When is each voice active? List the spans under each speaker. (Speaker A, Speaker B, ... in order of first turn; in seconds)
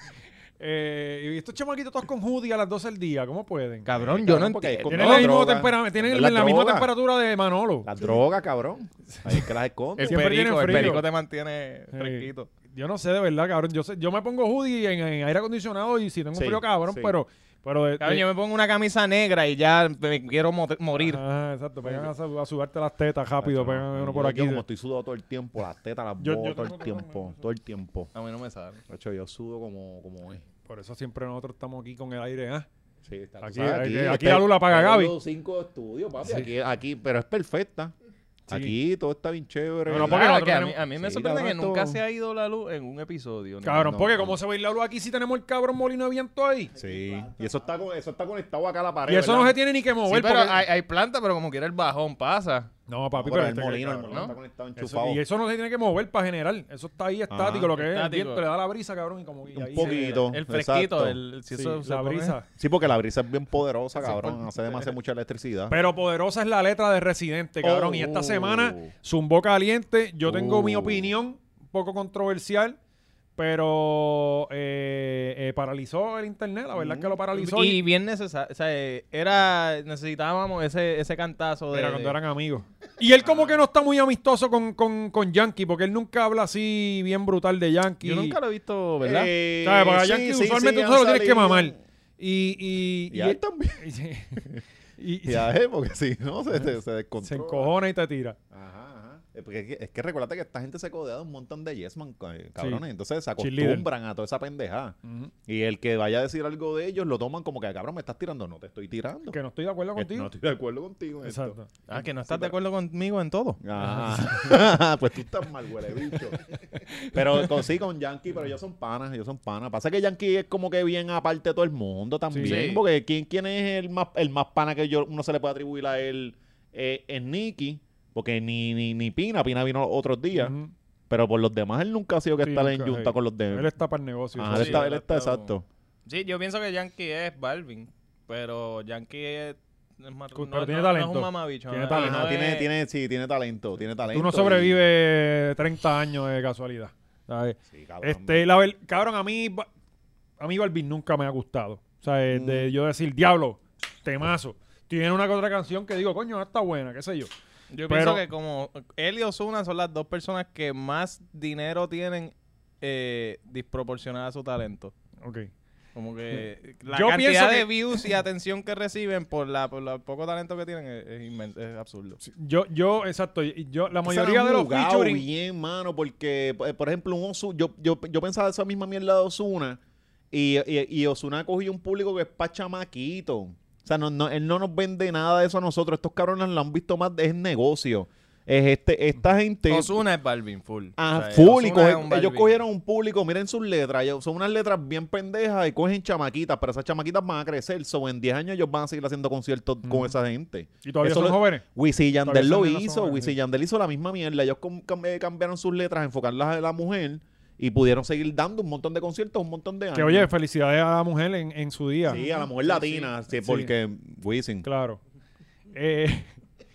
Speaker A: 0.6-3.9, 4.9-7.9, 9.1-9.4, 10.0-11.1, 11.9-18.2, 21.0-24.6, 26.2-27.4, 30.7-32.7, 33.4-35.1, 38.5-38.7, 39.9-40.8, 43.6-46.7, 49.1-50.6, 52.9-60.2, 61.5-62.5, 65.7-72.8, 73.4-77.8, 81.7-88.4, 89.6-95.5, 97.2-98.4, 102.6-102.8, 103.4-103.9, 105.0-105.3, 109.3-110.3, 111.2-111.7, 113.8-114.2, 122.3-122.7, 130.3-130.7, 132.4-134.8, 140.3-142.3, 144.1-149.7, 150.4-157.3, 157.9-158.2, 165.2-165.5, 166.3-167.7, 172.2-175.2, 200.8-201.6, 202.2-203.3, 209.9-212.2, 213.4-213.7, 214.6-215.0, 215.7-216.4
Speaker B: 3.9-5.3, 10.0-12.5, 18.0-21.2, 28.1-28.8, 39.9-44.0, 50.1-52.7, 57.8-58.4, 59.8-62.4, 64.0-64.9, 77.3-82.2, 88.0-89.3, 111.9-113.6, 116.8-117.4, 122.4-122.8, 134.4-135.5, 136.1-142.7, 157.7-164.9, 165.9-172.2, 189.7-192.6, 212.1-213.1
Speaker C: 3.9-6.9, 7.8-11.0, 16.3-17.2, 23.4-28.1, 28.9-30.4, 33.0-37.9, 38.5-40.3, 41.0-42.0, 43.8-44.4, 46.8-49.6, 53.1-55.2, 57.3-57.7, 59.5-61.2, 62.6-65.8, 67.6-68.9, 70.2-71.1, 76.8-77.1, 83.2-83.5, 89.0-91.8, 93.1-93.8, 95.3-97.7, 98.5-105.0, 105.5-109.4, 110.0-112.5, 113.6-116.5, 117.1-130.5, 131.1-133.7, 134.4-135.7, 141.9-144.9, 147.7-148.5, 152.3-152.7, 174.0-179.8, 180.3-190.0, 191.0-210.3, 212.1-214.7